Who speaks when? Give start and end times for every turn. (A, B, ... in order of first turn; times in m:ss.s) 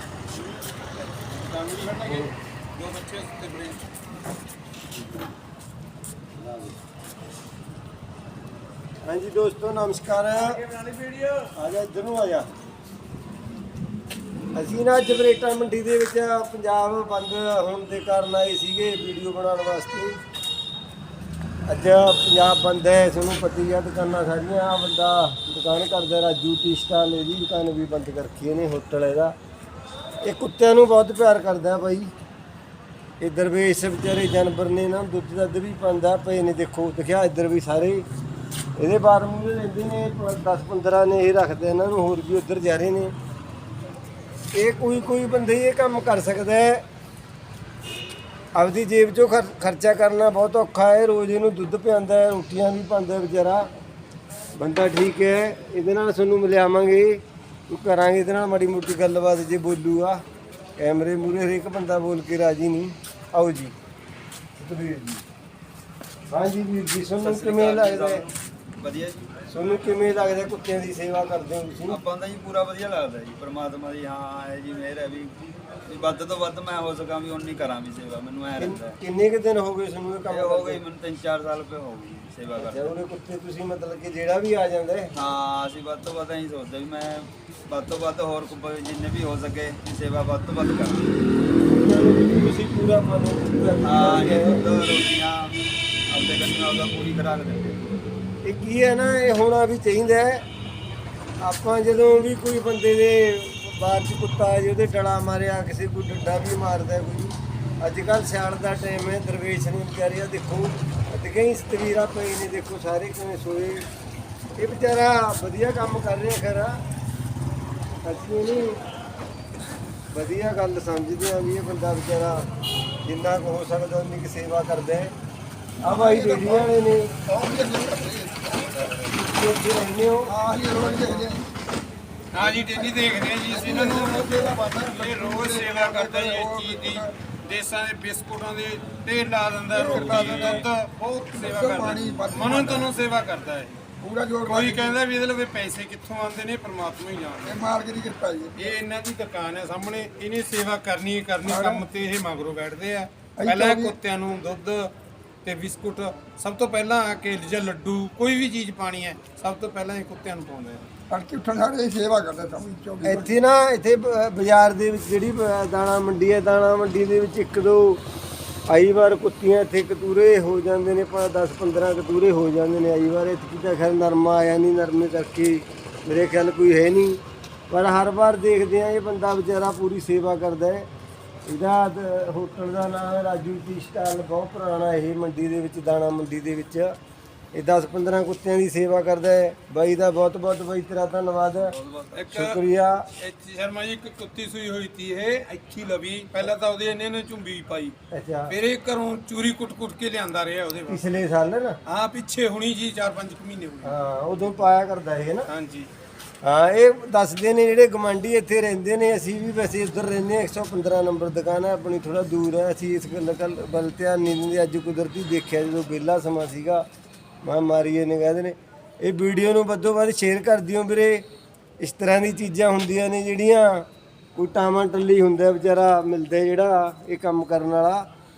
0:01.1-0:03.8 A
0:02.0-0:02.3 B
0:06.4-0:06.8 B
0:09.0-0:10.6 B
0:10.5-0:11.5 A
0:11.5-0:12.5 B
0:14.6-0:20.2 B
0:21.7-0:29.4 B
0:30.2-0:32.1 B
0:33.2-0:38.0 B
0:38.8-0:43.1 B
0:44.5-0:46.8 B
0:48.6-0:53.7 B
0:54.6-1:00.2 B
1:00.8-1:03.8 B
1:04.6-1:05.2 B
1:06.3-1:08.2 B
1:07.2-1:09.2 C
1:09.5-1:12.0 B
1:11.9-1:19.0 C
1:18.6-1:20.8 B
1:20.3-1:23.0 C
1:22.6-1:25.1 B
1:25.1-1:31.1 C
1:31.6-1:34.6 B
1:33.8-1:35.6 C
1:36.1-1:37.9 C
1:38.4-1:40.4 B
1:41.4-1:53.9 B
1:54.6-1:56.8 B
1:58.0-1:58.8 B
2:00.1-2:02.5 B
2:03.0-2:05.1 B
2:05.8-2:06.8 D
2:05.8-2:07.1 B
2:07.3-2:08.9 D
2:09.0-2:10.4 B
2:10.3-2:11.5 D
2:12.3-2:23.8 A
2:12.7-2:17.1 D
2:19.7-2:20.5 D
2:19.9-2:20.7 C
2:21.3-2:22.9 D
2:24.0-2:25.0 D
2:24.5-2:27.6 A
2:27.4-2:28.6 D
2:28.6-2:40.9 A
2:31.4-2:31.9 D
2:33.3-2:34.0 D
2:41.1-2:43.3 D
2:43.0-2:48.0 B
2:48.7-3:00.9 B
3:01.5-3:07.0 B
3:07.5-3:11.7 B
3:11.6-3:12.3 C
3:12.1-3:12.6 A
3:12.3-3:13.1 B
3:13.2-3:18.0 A
3:18.1-3:18.6 B
3:18.5-3:21.2 A
3:20.9-3:21.8 B
3:21.9-3:24.7 A
3:23.8-3:25.5 B
3:25.5-3:25.9 A
3:26.4-3:36.8 B
3:37.4-3:41.2 B
3:41.8-3:48.1 B